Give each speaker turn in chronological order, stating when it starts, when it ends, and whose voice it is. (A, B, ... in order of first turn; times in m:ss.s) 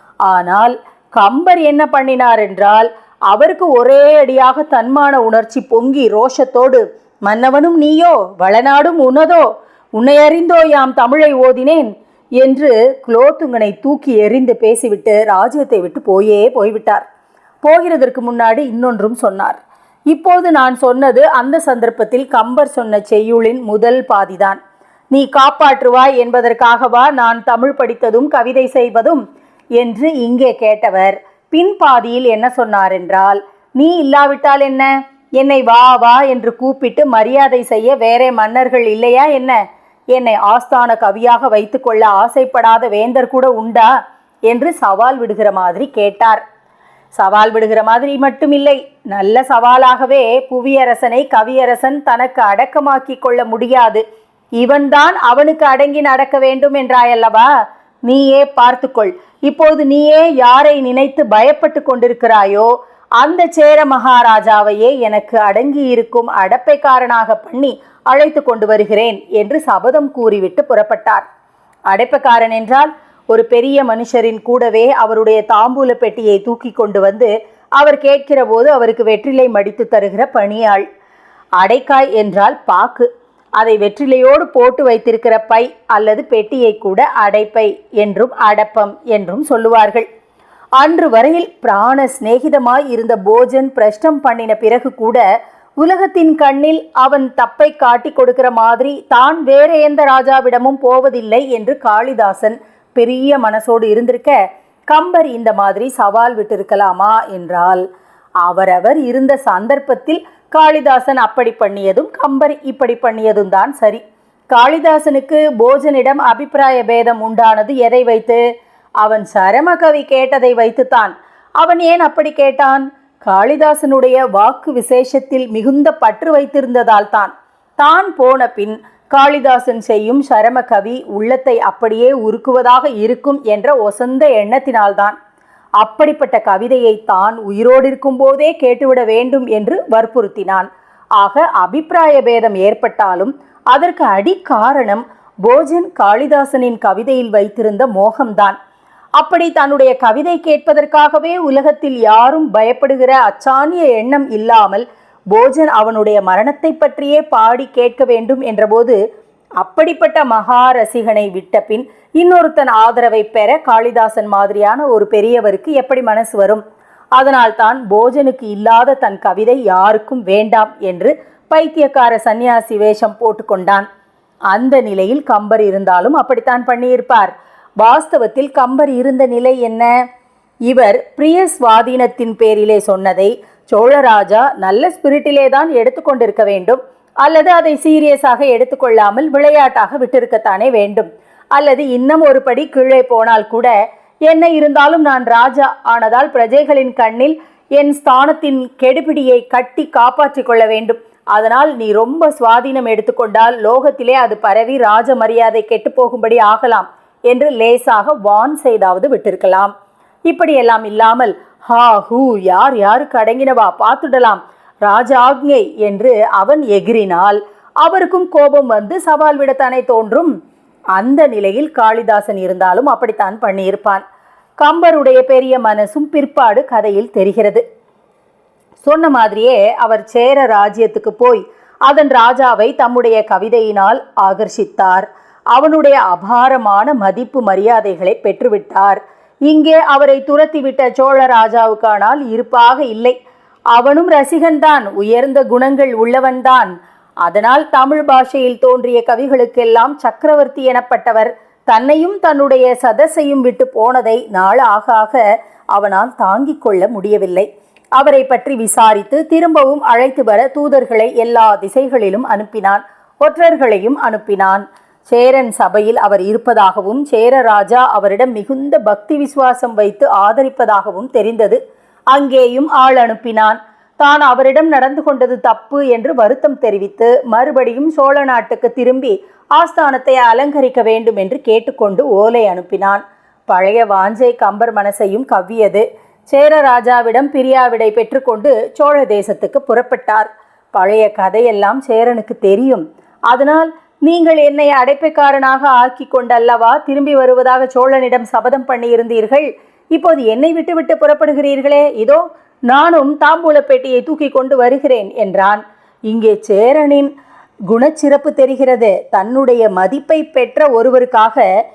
0:00.2-0:09.5 A
0:10.0-0:17.0 A
0:17.6-0:19.6 A
0:20.1-0:24.6 A
0:25.1-0:29.2 A
0:29.8-0:39.6 A
0:40.1-0:43.9 A
0:44.5-0:46.4 A
0:47.1-0:54.0 A
0:54.6-0:57.5 A
0:58.1-1:11.2 A
1:11.9-1:20.8 A
1:21.6-1:30.0 A
1:30.8-1:35.2 A
1:35.8-1:44.3 A
1:44.9-1:47.8 A
1:48.4-1:58.4 A
1:59.0-2:15.1 A
2:15.8-2:28.6 A
2:29.2-2:39.0 A
2:39.6-2:46.6 A
2:47.2-2:53.8 A
2:54.5-2:59.9 A
3:00.7-3:13.7 A
3:14.2-3:29.7 A
3:30.3-3:40.3 A
3:40.9-3:44.0 A
3:44.6-3:47.6 A
3:48.8-4:03.1 A
4:03.7-4:06.7 A
4:07.2-4:15.2 A
4:15.7-4:31.6 A
4:32.1-5:07.1 A
5:07.7-5:11.4 A